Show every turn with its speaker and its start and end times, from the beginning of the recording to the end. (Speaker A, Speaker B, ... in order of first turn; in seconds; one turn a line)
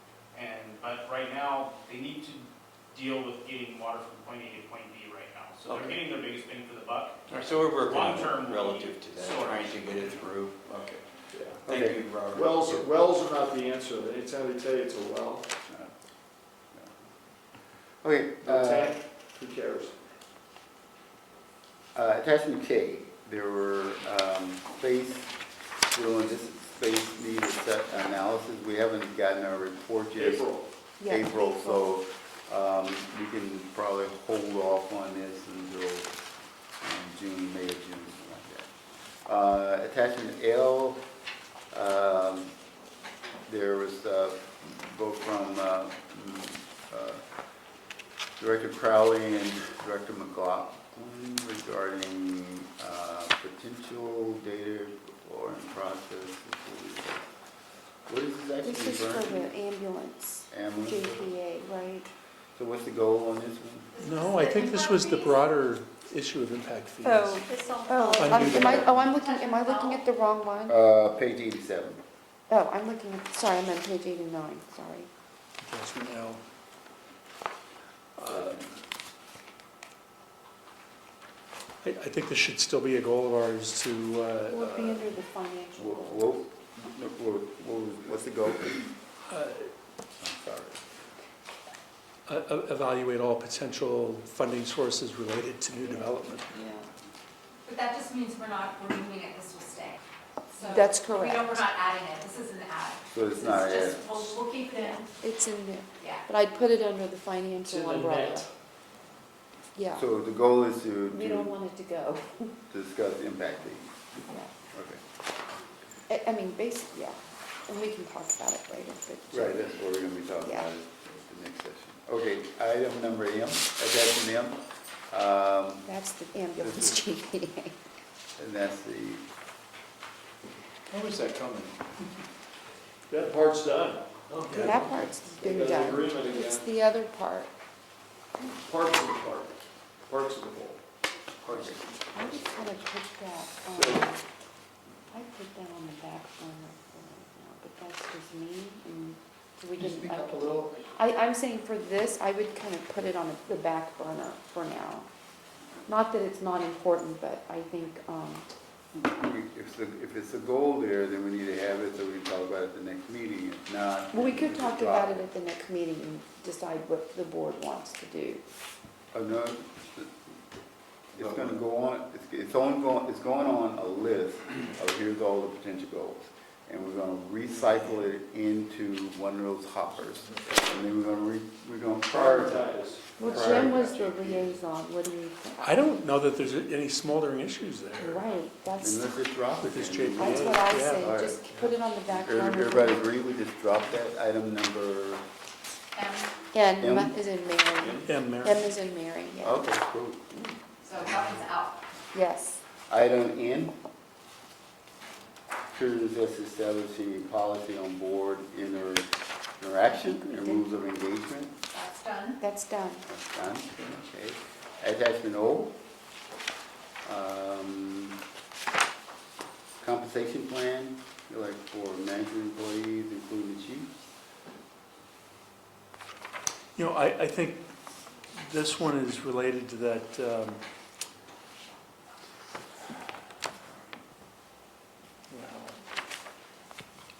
Speaker A: 0.3-10.2
Speaker B: 5.7-6.0
Speaker B: 7.3-11.0
Speaker C: 11.3-11.6
Speaker D: 11.7-12.6
Speaker B: 11.7-12.8
Speaker C: 12.3-15.5
Speaker D: 18.0-18.9
Speaker C: 18.4-20.0
Speaker D: 21.9-25.3
Speaker D: 25.9-30.5
Speaker C: 30.2-30.7
Speaker E: 31.0-31.9
Speaker D: 31.1-36.1
Speaker D: 36.8-38.7
Speaker D: 39.3-41.0
Speaker D: 41.7-42.5
Speaker D: 43.5-47.2
Speaker D: 48.4-57.3
Speaker D: 58.1-59.5
Speaker E: 58.6-62.1
Speaker D: 60.5-61.2
Speaker D: 62.6-63.9
Speaker F: 64.0-65.4
Speaker G: 64.0-67.5
Speaker E: 67.0-70.8
Speaker F: 67.5-70.0
Speaker G: 68.1-69.0
Speaker D: 70.7-72.0
Speaker E: 72.5-75.1
Speaker G: 75.7-76.4
Speaker G: 78.2-78.7
Speaker D: 78.3-78.7
Speaker G: 81.8-85.1
Speaker E: 84.5-86.3
Speaker D: 85.8-88.9
Speaker G: 89.2-89.7
Speaker D: 90.2-90.8
Speaker G: 92.3-96.5
Speaker E: 95.8-96.9
Speaker F: 97.7-100.0
Speaker F: 100.5-105.1
Speaker E: 100.6-101.7
Speaker D: 103.1-104.3
Speaker E: 105.2-108.5
Speaker F: 106.0-106.3
Speaker C: 107.7-108.5
Speaker E: 109.8-110.0
Speaker D: 109.9-111.5
Speaker E: 111.1-112.5
Speaker D: 112.7-113.9
Speaker E: 114.3-114.5
Speaker D: 114.7-115.0
Speaker E: 116.1-119.6
Speaker D: 119.3-124.6
Speaker E: 120.4-120.7
Speaker D: 125.1-125.9
Speaker E: 125.8-127.8
Speaker D: 126.6-127.0
Speaker D: 128.4-129.2
Speaker B: 130.9-131.8
Speaker C: 133.1-134.1
Speaker B: 134.3-135.0
Speaker G: 134.5-134.8
Speaker E: 134.6-137.5
Speaker C: 135.3-136.7
Speaker C: 138.6-140.8
Speaker B: 141.4-141.8
Speaker E: 142.1-144.2
Speaker C: 143.8-144.1
Speaker E: 145.1-155.1
Speaker B: 149.9-150.7
Speaker D: 150.2-150.5
Speaker E: 155.9-158.5
Speaker D: 158.9-165.2
Speaker E: 164.1-168.4
Speaker D: 169.1-170.1
Speaker D: 171.1-184.6
Speaker B: 171.2-171.5
Speaker C: 182.1-183.9
Speaker E: 183.2-185.8
Speaker G: 185.6-188.2
Speaker E: 188.0-189.2
Speaker D: 188.8-191.4
Speaker G: 189.6-191.1
Speaker E: 190.2-193.1
Speaker D: 192.1-195.2
Speaker F: 195.9-196.3
Speaker E: 196.5-199.8
Speaker D: 196.8-197.2
Speaker G: 198.0-198.7
Speaker D: 199.4-200.3
Speaker E: 200.3-200.7
Speaker F: 200.8-201.8
Speaker E: 202.1-202.6
Speaker D: 202.9-203.8
Speaker D: 205.7-211.5
Speaker E: 210.2-210.6
Speaker F: 211.7-212.4
Speaker E: 212.4-213.0
Speaker D: 213.1-215.8
Speaker D: 217.1-218.2
Speaker D: 219.8-223.9
Speaker G: 226.8-227.7
Speaker G: 228.5-230.6
Speaker G: 235.3-235.8